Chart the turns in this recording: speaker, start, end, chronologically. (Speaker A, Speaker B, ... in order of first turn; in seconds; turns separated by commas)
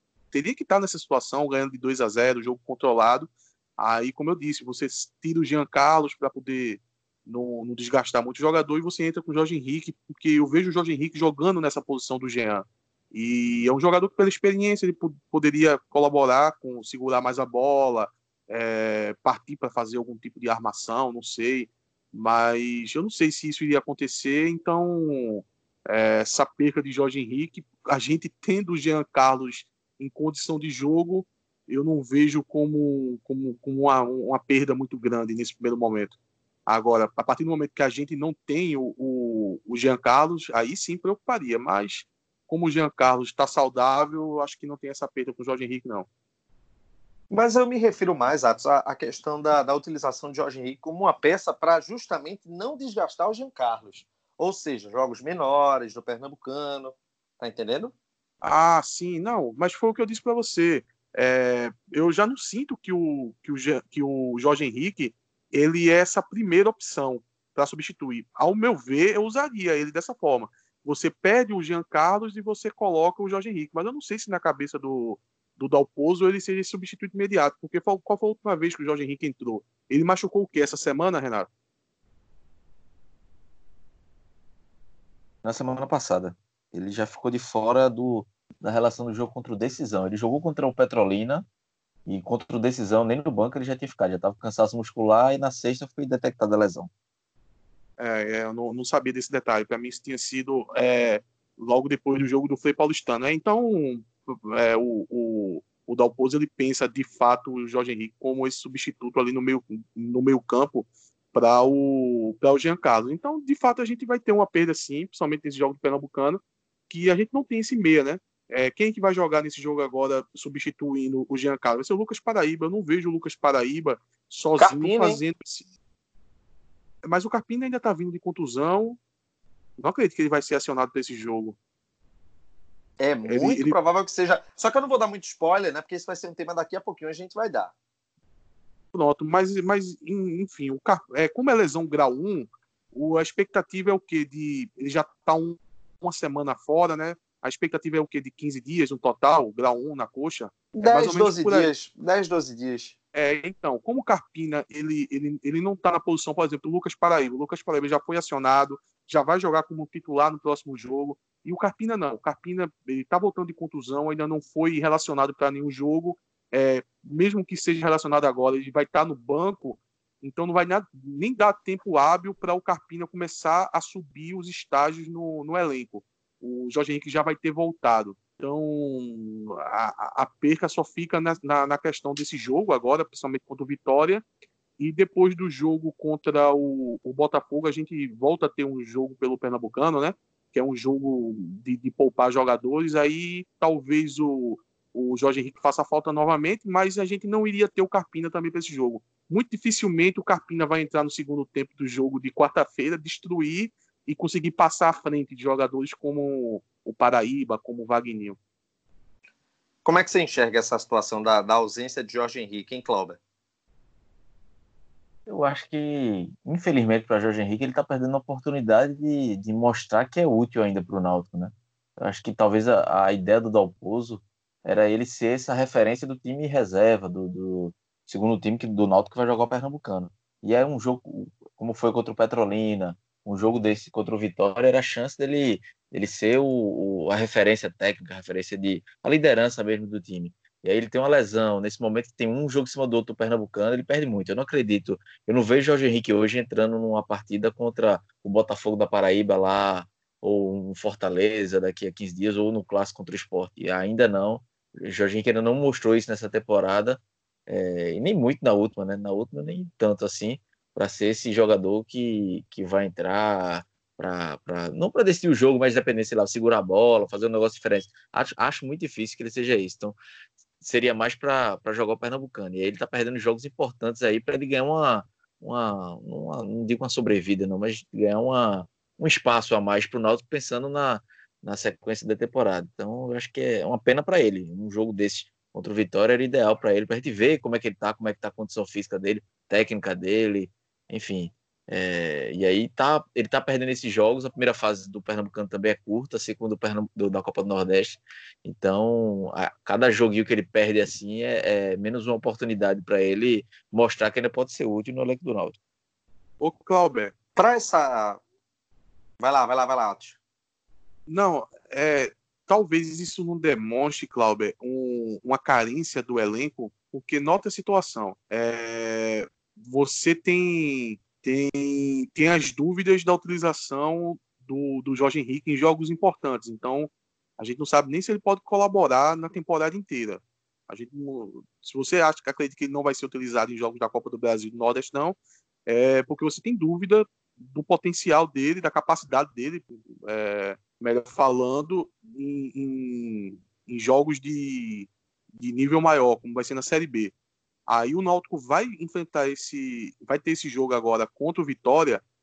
Speaker A: 0.3-46.1, Speaker B: 47.3-57.9, Speaker A: 58.4-81.5, Speaker C: 85.4-91.4, Speaker C: 92.0-96.9, Speaker A: 98.0-125.7, Speaker B: 124.6-125.2, Speaker A: 127.0-129.0, Speaker A: 129.8-131.6, Speaker B: 133.0-137.7, Speaker A: 133.2-133.8, Speaker A: 138.9-151.7, Speaker B: 150.7-152.9, Speaker A: 153.1-184.2, Speaker A: 184.8-208.4, Speaker B: 209.8-213.2, Speaker C: 215.3-270.0, Speaker C: 270.6-305.6, Speaker A: 306.4-307.1, Speaker B: 307.4-308.2, Speaker B: 309.2-310.2, Speaker A: 311.1-347.1, Speaker A: 347.7-352.0